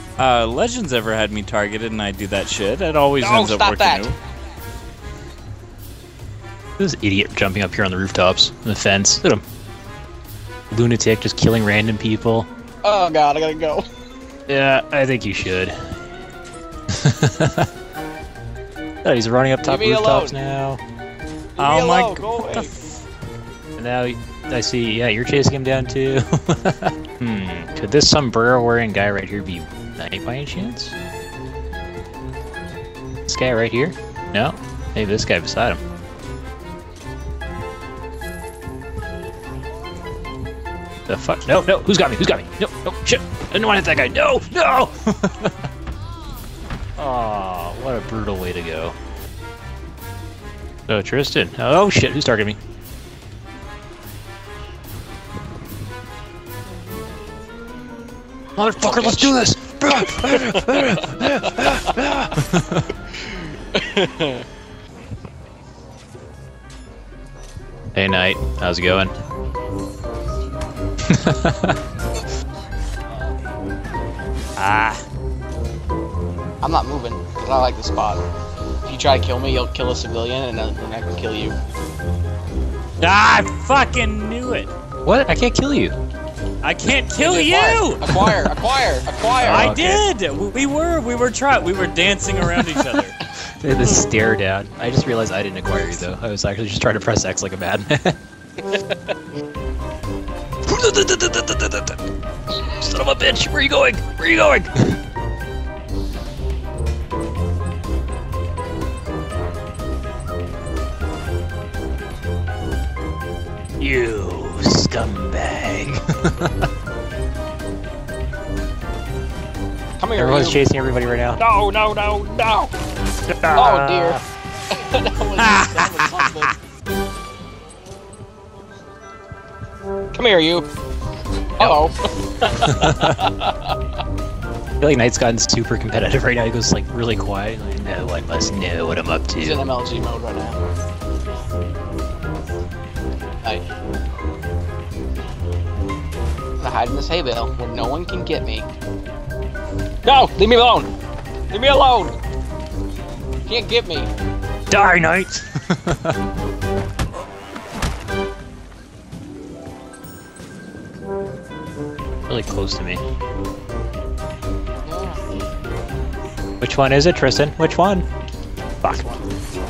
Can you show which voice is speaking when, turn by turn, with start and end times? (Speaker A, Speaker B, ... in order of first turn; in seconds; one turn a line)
Speaker A: 0.2-4.2
Speaker B: 3.2-4.1
Speaker C: 6.8-9.4
Speaker C: 10.7-12.5
Speaker B: 12.8-13.9
Speaker C: 14.5-15.8
Speaker C: 16.9-17.7
Speaker C: 19.0-20.8
Speaker B: 19.6-20.4
Speaker B: 21.6-22.8
Speaker A: 21.6-22.8
Speaker C: 23.8-31.0
Speaker C: 33.3-35.8
Speaker C: 41.1-45.5
Speaker C: 47.0-49.0
Speaker C: 50.9-52.6
Speaker C: 58.6-62.9
Speaker B: 58.8-59.4
Speaker B: 60.0-61.2
Speaker B: 63.3-64.5
Speaker C: 68.0-69.1
Speaker C: 71.1-71.8
Speaker A: 74.6-75.0
Speaker B: 76.6-78.2
Speaker B: 78.9-81.6
Speaker A: 83.0-84.7
Speaker C: 85.0-86.0
Speaker A: 86.6-88.3
Speaker B: 87.2-89.8
Speaker C: 89.4-90.0
Speaker A: 89.4-93.2
Speaker C: 93.6-98.2
Speaker C: 100.7-102.0
Speaker C: 102.5-105.0
Speaker C: 113.8-116.6
Speaker B: 120.0-120.6
Speaker C: 120.2-121.4
Speaker B: 121.4-122.7
Speaker C: 123.3-124.2
Speaker B: 123.5-126.5
Speaker A: 125.4-126.3
Speaker B: 130.1-130.7
Speaker B: 131.6-133.8
Speaker C: 132.7-133.2
Speaker C: 134.8-139.6
Speaker B: 139.4-140.6
Speaker B: 146.6-148.7
Speaker B: 150.1-150.9
Speaker B: 151.5-152.2
Speaker B: 153.5-154.1
Speaker C: 154.7-156.2
Speaker C: 162.3-163.0
Speaker B: 164.8-165.2
Speaker C: 166.6-168.1
Speaker C: 168.8-169.1
Speaker B: 168.9-169.2